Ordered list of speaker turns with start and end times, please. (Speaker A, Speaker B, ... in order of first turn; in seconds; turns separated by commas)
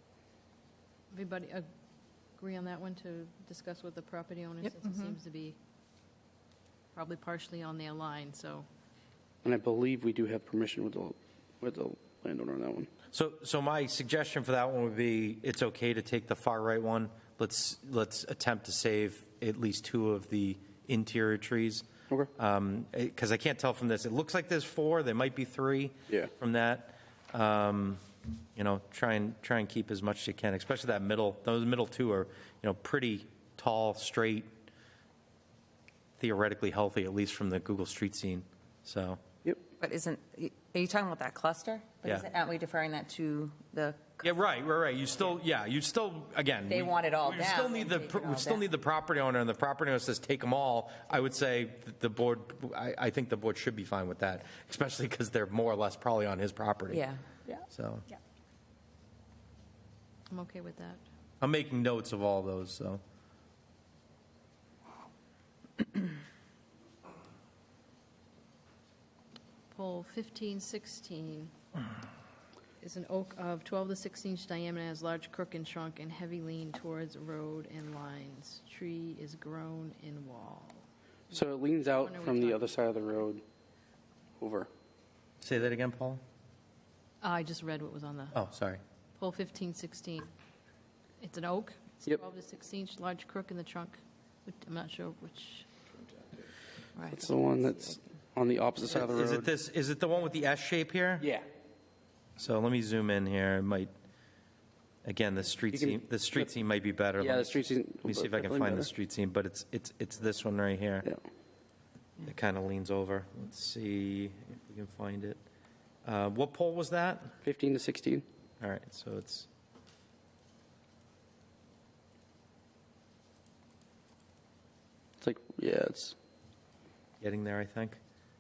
Speaker A: 1.1-1.6, Speaker A: 2.4-5.6, Speaker A: 7.0-8.7, Speaker B: 9.4-12.9, Speaker C: 13.1-28.0, Speaker C: 28.6-34.5, Speaker C: 36.2-39.2, Speaker D: 39.8-44.4, Speaker C: 44.2-57.1, Speaker D: 46.6-48.7, Speaker D: 56.9-57.7, Speaker C: 57.7-58.0, Speaker A: 60.3-61.0, Speaker C: 61.4-63.0, Speaker A: 69.7-71.5, Speaker A: 72.8-81.3, Speaker B: 81.3-83.4, Speaker A: 82.0-82.8, Speaker B: 84.4-84.7, Speaker C: 85.4-86.2, Speaker A: 87.2-88.4, Speaker C: 88.3-88.8, Speaker A: 89.2-90.3, Speaker A: 91.2-95.7, Speaker B: 97.1-99.5, Speaker C: 98.9-101.3, Speaker B: 101.2-101.5, Speaker C: 102.4-103.9, Speaker C: 105.0-111.1, Speaker B: 105.7-106.5, Speaker B: 107.2-108.9, Speaker C: 112.2-115.4, Speaker C: 116.0-117.3, Speaker B: 117.4-118.2, Speaker C: 118.6-119.5, Speaker B: 125.2-126.2, Speaker C: 127.2-128.0